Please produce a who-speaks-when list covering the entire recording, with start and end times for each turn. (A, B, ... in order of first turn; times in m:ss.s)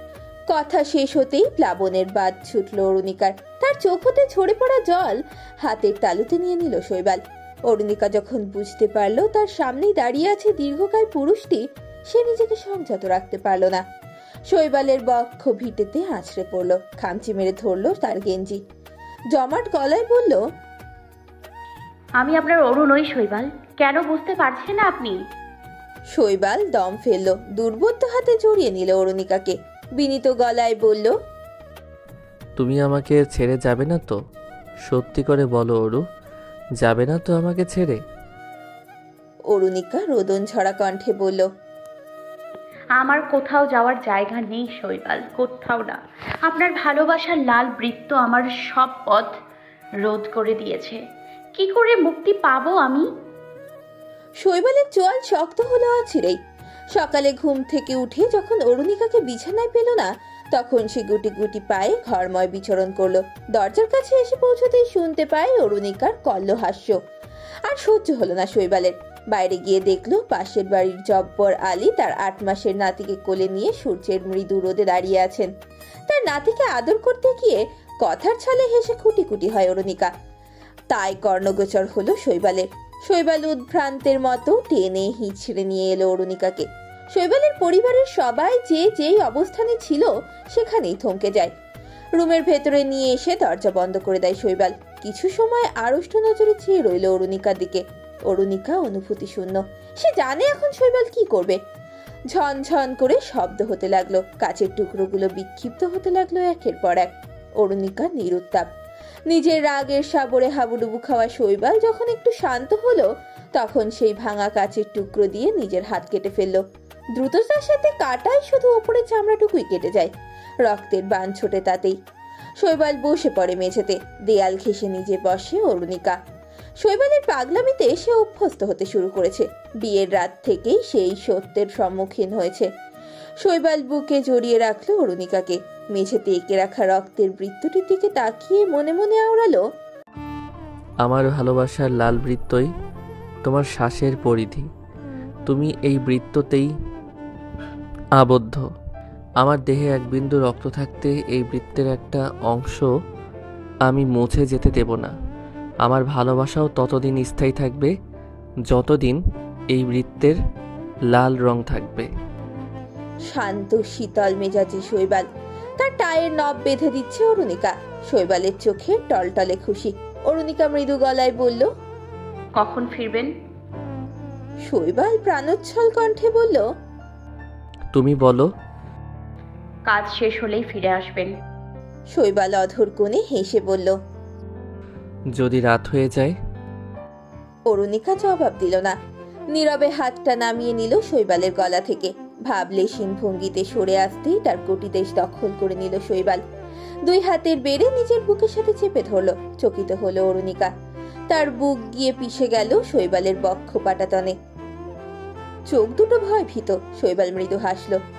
0:00.5-0:13.8 A
0:14.5-0:18.6 A
0:19.3-0:20.4 A
0:22.2-0:25.2 B
0:26.1-0:31.1 A
0:32.6-0:34.1 C
0:34.8-0:36.0 C
0:36.8-0:38.0 C
0:39.5-0:41.4 A
0:43.0-0:49.3 B
0:50.0-0:51.0 B
0:51.6-0:53.0 B
0:54.4-0:56.4 A
0:56.9-1:07.0 A
1:07.7-1:15.5 A
1:16.1-1:20.1 A
1:20.9-1:31.5 A
1:32.2-1:41.6 A
1:42.3-1:48.6 A
1:49.3-1:56.6 A
1:57.2-2:00.1 A
2:00.6-2:02.0 A
2:02.6-2:06.2 A
2:06.8-2:12.7 A
2:13.4-2:19.6 A
2:21.0-2:22.7 C
2:23.4-2:24.7 C
2:25.5-2:26.7 C
2:28.2-2:28.6 C
2:29.4-2:32.9 C
2:33.9-2:35.1 C
2:35.8-2:37.9 C
2:38.7-2:39.2 C
2:39.7-2:40.4 C
2:41.1-2:42.1 C
2:43.3-2:45.2 A
2:45.8-2:51.7 A
2:52.6-2:53.3 B
2:54.6-2:56.6 A
2:57.9-2:58.5 C
2:59.9-3:01.3 B
3:02.1-3:03.9 A
3:05.3-3:06.3 C
3:07.7-3:08.9 A
3:09.5-3:16.4 A
3:17.0-3:20.7 A
3:21.3-3:24.3 A
3:25.7-3:28.0 A